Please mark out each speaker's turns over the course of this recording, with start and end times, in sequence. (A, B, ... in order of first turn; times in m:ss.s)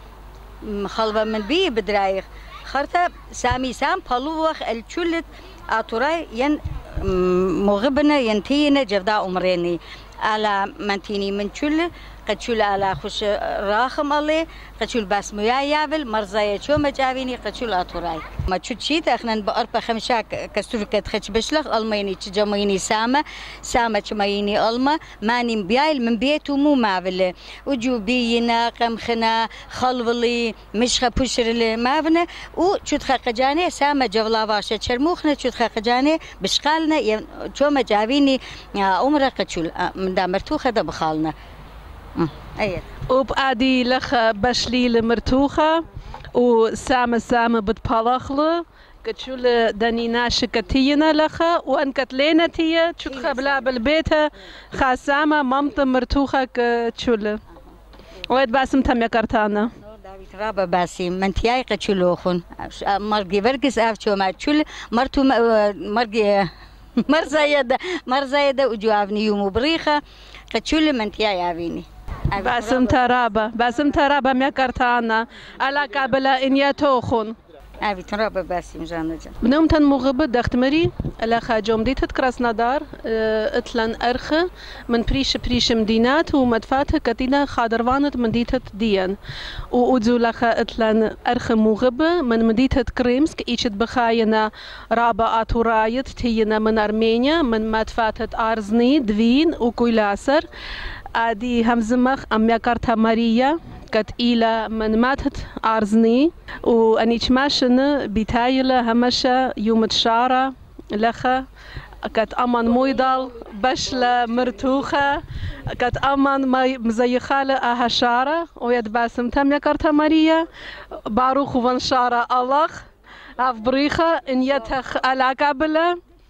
0:00.6-0:41.3 A
0:42.2-0:42.8 A
0:43.1-0:45.8 B
0:46.3-0:57.4 B
0:53.0-0:53.4 A
0:58.3-0:59.7 B
0:59.8-1:06.5 A
1:07.0-1:10.0 A
1:10.5-1:13.2 A
1:12.4-1:17.4 B
1:17.8-1:19.3 A
1:19.4-1:29.2 B
1:29.7-1:40.5 B
1:41.1-1:51.4 B
1:52.0-1:55.2 B
1:55.7-2:00.5 B
2:01.0-2:02.8 B
2:03.4-2:06.0 B